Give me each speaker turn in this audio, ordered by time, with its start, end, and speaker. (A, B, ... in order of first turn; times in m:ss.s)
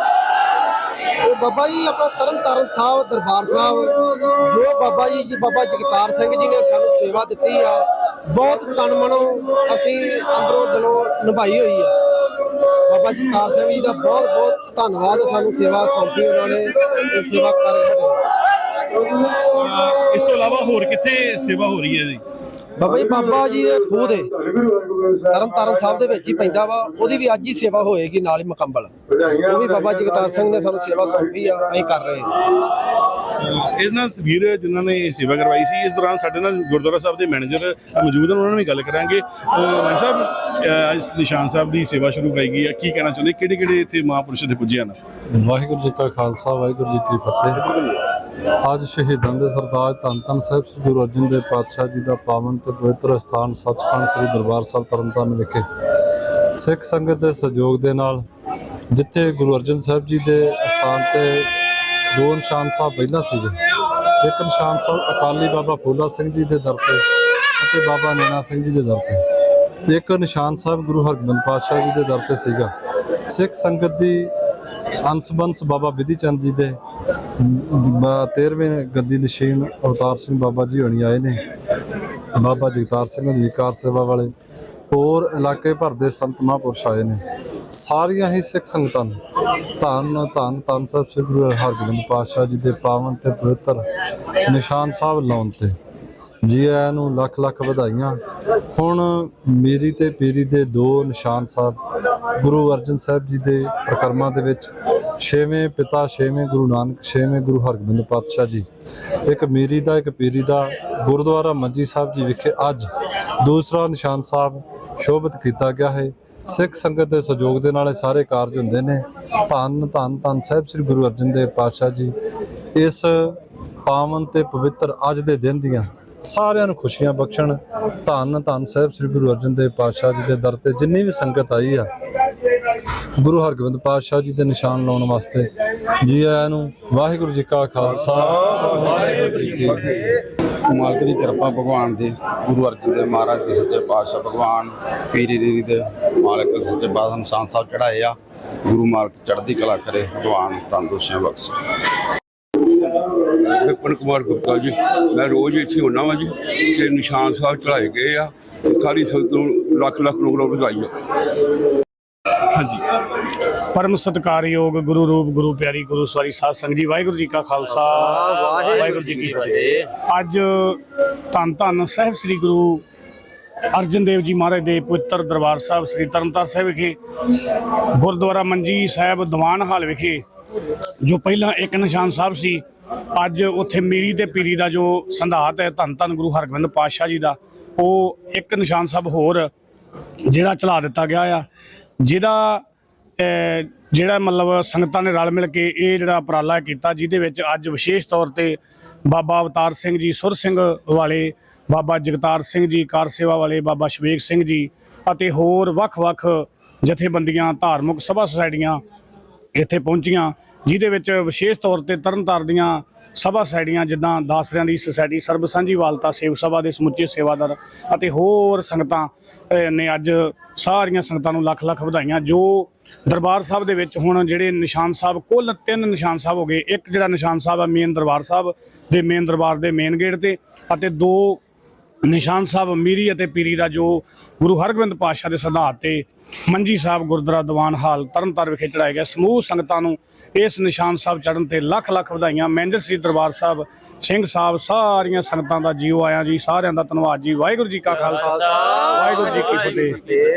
0:01.2-0:11.9 A
0:12.9-0:18.2 A
0:19.4-0:22.2 B
0:22.8-0:32.4 A
0:33.4-0:45.0 B
0:45.3-0:47.6 C
0:47.7-0:47.9 B
0:48.6-0:55.6 C
0:56.5-0:58.2 C
0:58.9-1:01.5 C
1:02.1-1:03.6 C
1:04.2-1:07.0 C
1:07.6-1:09.2 C
1:09.9-1:12.7 C
1:13.3-1:14.3 C
1:15.0-1:16.8 C
1:17.4-1:21.4 C
1:22.3-1:24.3 C
1:24.9-1:29.2 C
1:29.8-1:33.8 C
1:34.4-1:35.7 C
1:36.4-1:38.2 C
1:38.7-1:41.8 C
1:42.4-1:48.6 C
1:49.2-1:52.9 C
1:53.4-2:02.1 C
2:02.8-2:11.9 C
2:13.2-2:15.5 C
2:16.0-2:20.0 C
2:20.7-2:28.1 D
2:28.6-2:31.5 D
2:33.5-2:40.9 E
2:42.5-2:42.8 B
2:43.7-2:50.8 F
2:51.3-2:52.8 F
2:53.7-2:57.0 F
2:58.0-3:00.2 F
3:01.0-3:02.6 F
3:03.2-3:09.5 F
3:10.3-3:11.4 F
3:12.0-3:12.6 F
3:13.2-3:18.6 F
3:19.1-3:28.8 F
3:29.6-3:51.4 F
3:52.1-4:10.2 F